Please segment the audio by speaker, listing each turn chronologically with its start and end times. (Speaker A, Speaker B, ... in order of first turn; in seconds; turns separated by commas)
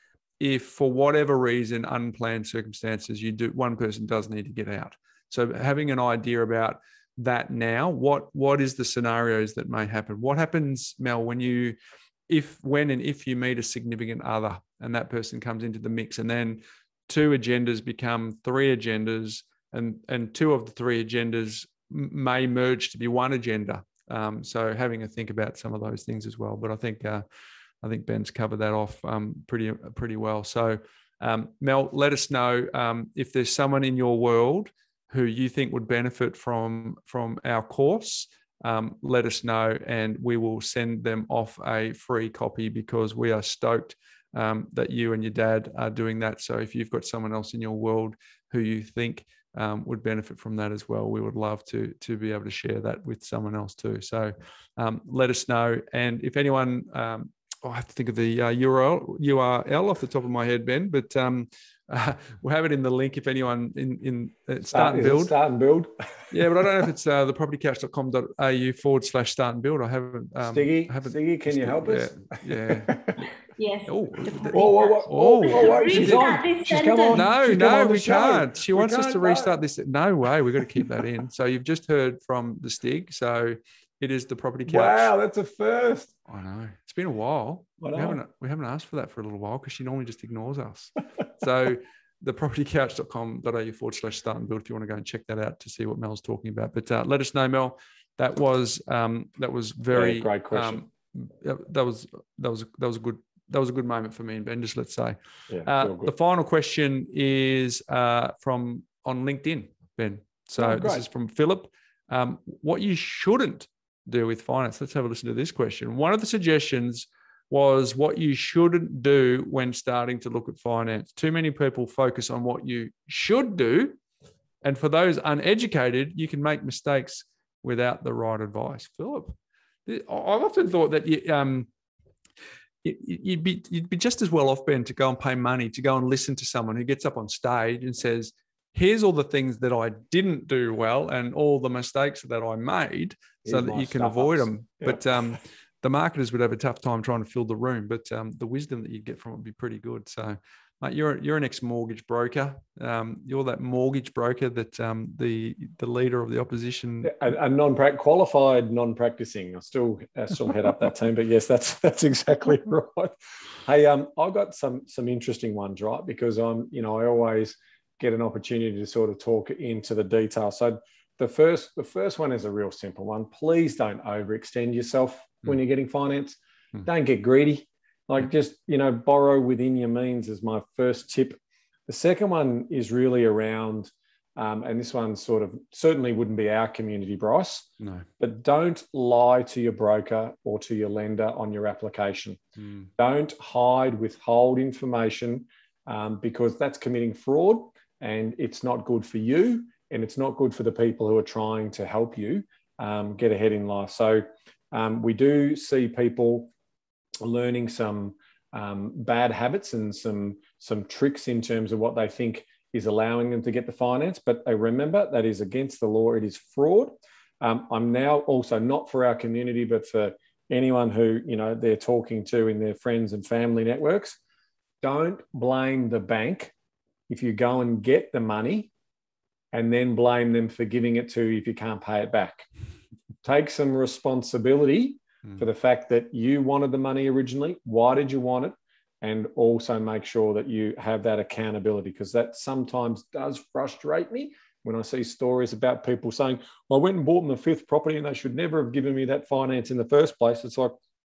Speaker A: 0.4-11.8, Speaker A: 12.3-27.2, Speaker A: 27.8-65.3, Speaker B: 64.7-65.9, Speaker A: 66.3-73.0, Speaker B: 70.4-73.2, Speaker C: 73.6-74.9, Speaker A: 73.9-76.4, Speaker B: 74.5-79.5, Speaker C: 75.5-77.2, Speaker A: 77.1-85.1, Speaker B: 80.5-81.0, Speaker B: 84.7-86.1, Speaker A: 86.3-124.0, Speaker B: 87.8-88.2, Speaker B: 99.9-100.8, Speaker B: 105.5-106.1, Speaker B: 110.6-111.0, Speaker A: 124.6-129.3, Speaker A: 129.9-131.7, Speaker A: 132.8-157.2, Speaker B: 143.4-145.0, Speaker B: 157.0-192.4, Speaker A: 187.8-188.1, Speaker A: 192.6-192.9, Speaker B: 193.0-206.5, Speaker B: 207.2-224.2, Speaker B: 224.8-226.5, Speaker B: 227.1-228.7, Speaker B: 229.5-232.5, Speaker B: 233.2-250.8